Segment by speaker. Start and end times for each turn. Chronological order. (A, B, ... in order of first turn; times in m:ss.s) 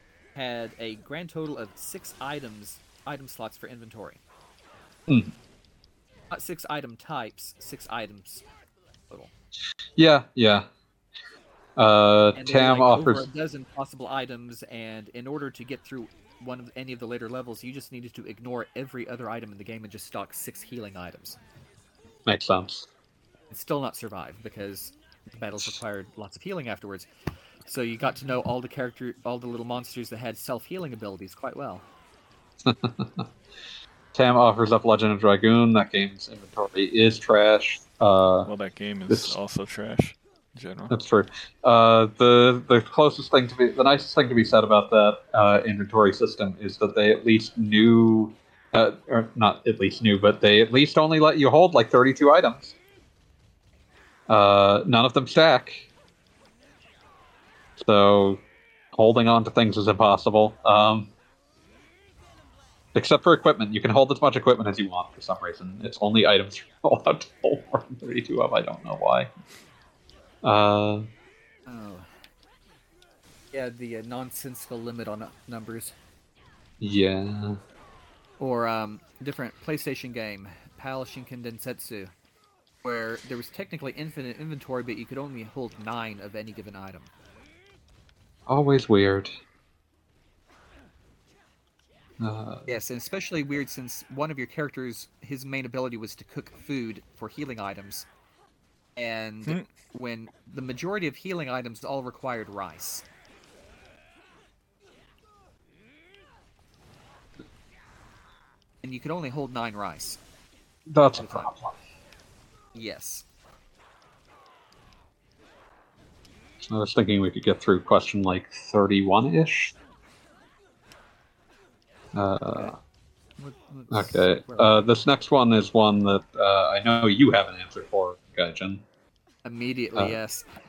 0:00.3-0:04.2 A
0:05.1-0:05.3 B
0:06.3-0:08.4 A
0:10.0-0:10.7 B
0:11.8-0:13.2 B
0:12.4-0:21.4 A
0:22.2-0:22.9 B
0:23.5-0:27.1 A
0:27.6-0:31.8 A
0:32.6-0:33.2 B
0:34.1-0:38.5 B
0:38.4-0:40.9 C
0:39.1-0:39.3 B
0:40.9-0:52.7 B
0:54.3-0:55.9 B
0:57.8-0:58.4 B
0:58.9-1:01.1 B
1:02.9-1:09.3 B
1:10.4-1:11.1 B
1:11.7-1:12.1 A
1:13.5-1:15.9 A
1:16.8-1:17.6 B
1:18.4-1:22.1 A
1:22.8-1:27.1 A
1:28.5-1:29.3 B
1:32.2-1:32.6 B
1:32.6-1:38.1 A
1:39.0-1:43.0 A
1:48.8-1:50.2 A
1:50.9-1:51.7 B
1:51.2-1:51.5 A
1:52.7-1:53.2 A
1:56.6-1:59.7 B
2:02.1-2:02.8 B
2:03.4-2:04.8 A
2:03.9-2:08.8 B
2:09.4-2:10.5 A